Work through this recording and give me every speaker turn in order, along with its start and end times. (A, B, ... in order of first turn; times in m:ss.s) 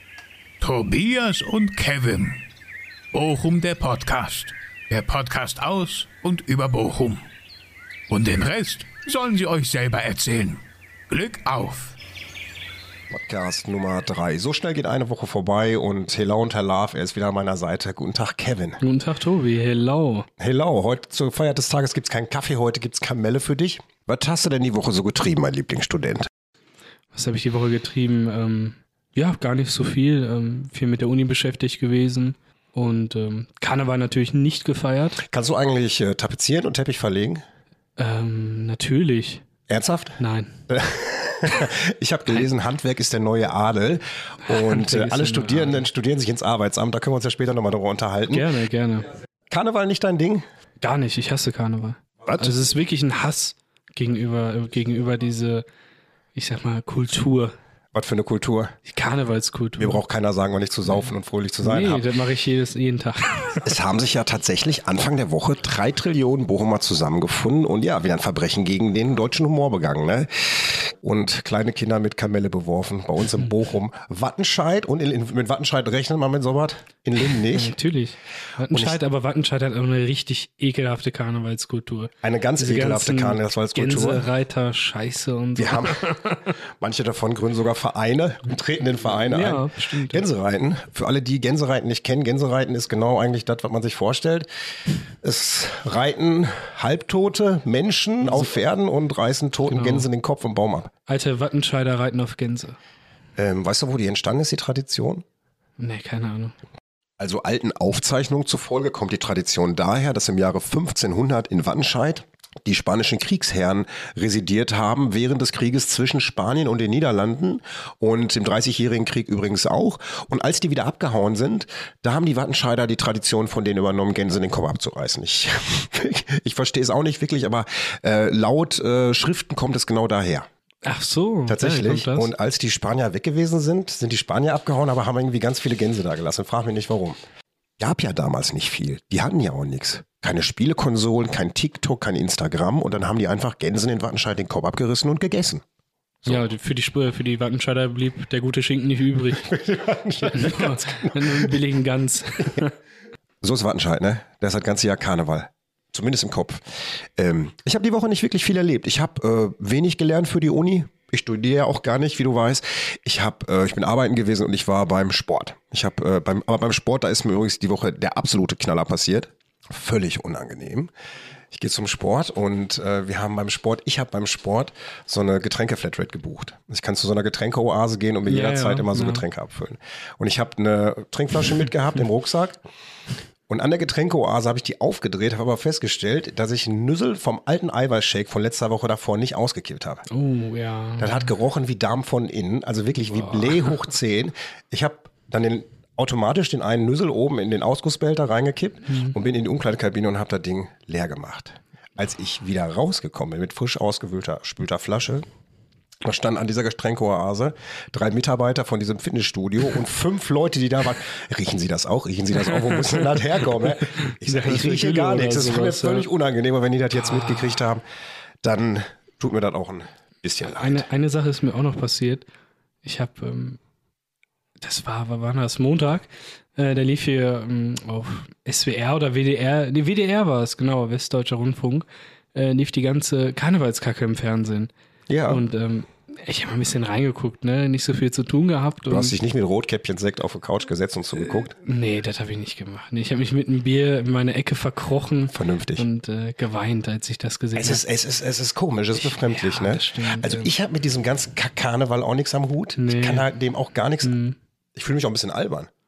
0:00.6-0:02.4 A
0:03.1-0:07.2 A
0:08.1-0:11.9 A
0:13.1-0:18.8 B
0:18.8-0:20.3 C
0:20.4-0:26.3 B
0:27.1-0:35.2 C
0:35.2-0:37.4 B
0:38.0-0:39.4 C
0:39.7-0:48.5 B
0:40.2-0:40.6 C
0:44.4-0:45.9 C
0:48.3-0:49.1 C
0:49.5-0:50.4 B
0:50.8-0:55.6 C
0:52.2-0:52.6 B
0:56.3-0:57.5 C
0:57.9-0:58.8 B
0:58.8-1:00.0 C
0:59.8-1:02.1 B
1:01.6-1:03.7 C
1:03.6-1:17.7 B
1:17.5-1:26.6 C
1:18.7-1:19.0 B
1:22.2-1:24.3 B
1:25.6-1:34.5 B
1:29.2-1:30.2 C
1:35.2-1:40.9 B
1:38.2-1:38.5 C
1:39.7-1:40.1 C
1:41.1-1:42.8 C
1:43.4-1:45.2 B
1:45.8-1:46.5 C
1:47.2-2:10.5 B
2:10.8-2:12.3 C
2:11.5-2:17.2 B
2:17.8-2:25.6 B
2:26.2-2:29.5 C
2:29.4-2:31.6 B
2:30.3-2:32.7 C
2:33.4-2:36.6 B
2:37.2-2:50.9 B
2:51.5-3:02.6 B
2:58.2-2:59.2 C
3:03.5-3:10.0 B
3:10.1-3:11.3 C
3:11.0-3:25.2 B
3:13.1-3:13.7 C
3:18.9-3:19.2 C
3:26.0-3:37.8 B
3:32.4-3:36.1 C
3:36.9-3:37.6 C
3:38.4-3:40.8 B
3:40.4-3:42.2 C
3:42.8-3:43.6 C
3:44.6-3:54.7 C
3:55.1-3:55.4 B
3:55.3-3:59.1 C
3:58.9-4:01.5 B
4:01.2-4:07.8 C
4:05.3-4:05.8 B
4:07.6-4:14.2 B
4:08.9-4:10.5 C
4:12.8-4:13.3 C
4:14.0-4:14.4 C
4:14.7-4:15.7 B